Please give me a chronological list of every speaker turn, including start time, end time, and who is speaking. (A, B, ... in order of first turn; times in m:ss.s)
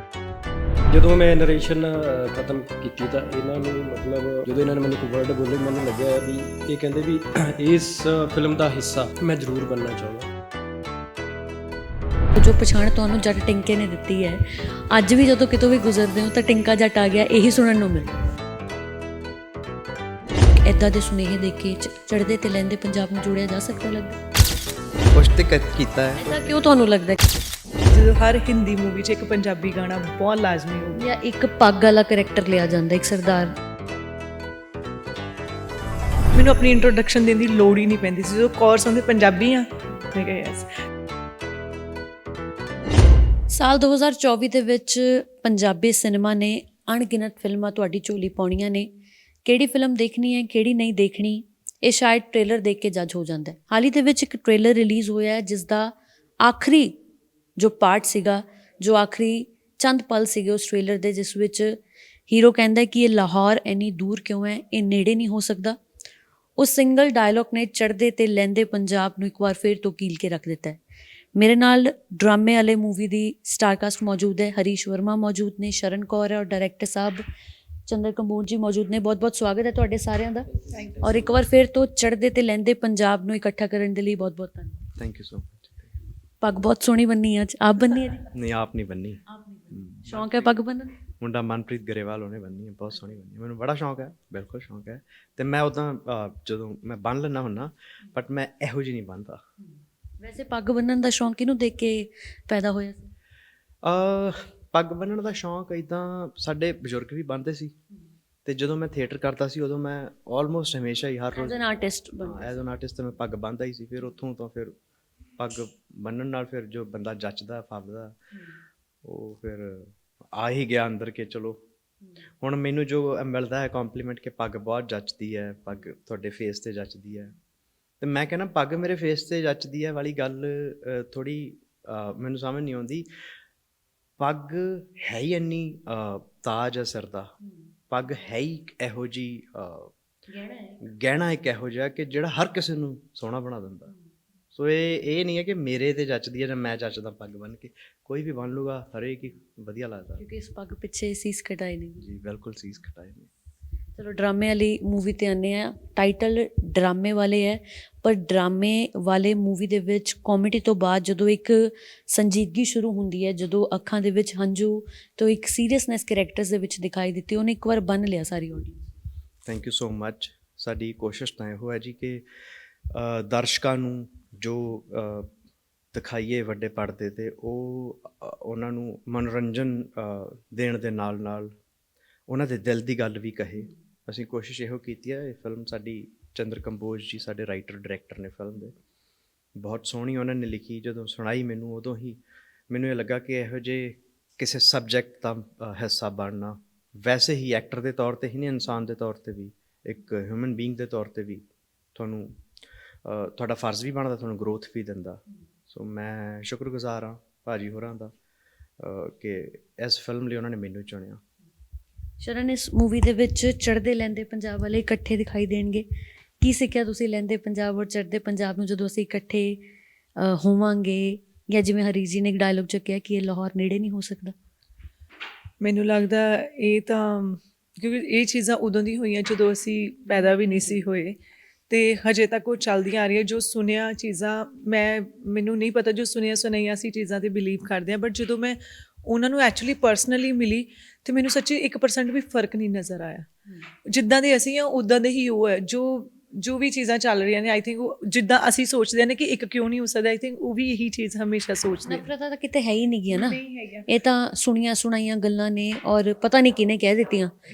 0:00.9-0:10.3 A
0:12.3-0:18.2 B
0:20.6-0:24.2 B
0:25.1-0:26.4 C
0:26.2-0:27.2 B
0:27.9-0:31.0 D
0:30.9-0:33.6 B
0:36.3-0:40.7 D
0:43.5-0:48.9 B
0:49.4-0:57.0 B
0:57.6-1:05.8 B
1:06.6-1:10.8 B
1:11.3-1:17.2 B
1:17.9-1:24.8 B
1:20.7-1:21.2 D
1:25.0-1:25.9 C
1:26.4-1:28.3 B
1:28.3-1:30.5 C
1:29.3-1:31.0 B
1:31.2-1:39.4 C
1:40.2-1:43.1 B
1:43.8-1:47.7 C
1:48.5-1:51.6 C
1:51.4-1:52.6 B
1:52.2-1:54.8 C
1:55.4-1:58.2 C
1:59.0-2:01.6 C
2:02.4-2:07.3 C
2:08.0-2:13.1 C
2:14.2-2:17.3 C
2:17.9-2:19.9 C
2:20.3-2:20.8 B
2:20.8-2:23.9 C
2:24.5-2:30.2 C
2:30.2-2:32.0 B
2:32.0-2:33.3 C
2:34.0-2:48.8 B
2:49.4-2:52.2 C
2:52.9-2:55.3 C
2:55.9-3:01.5 C
3:02.3-3:08.8 C
3:09.6-3:12.2 C
3:12.7-3:22.4 C
3:23.0-3:28.1 C
3:28.8-3:31.2 C
3:32.2-3:35.8 B
3:36.4-3:39.6 B
3:40.2-3:44.4 B
3:45.6-3:51.2 D
3:51.7-4:03.3 D
4:03.9-4:12.0 D
4:11.9-4:17.4 B
4:13.1-4:13.9 D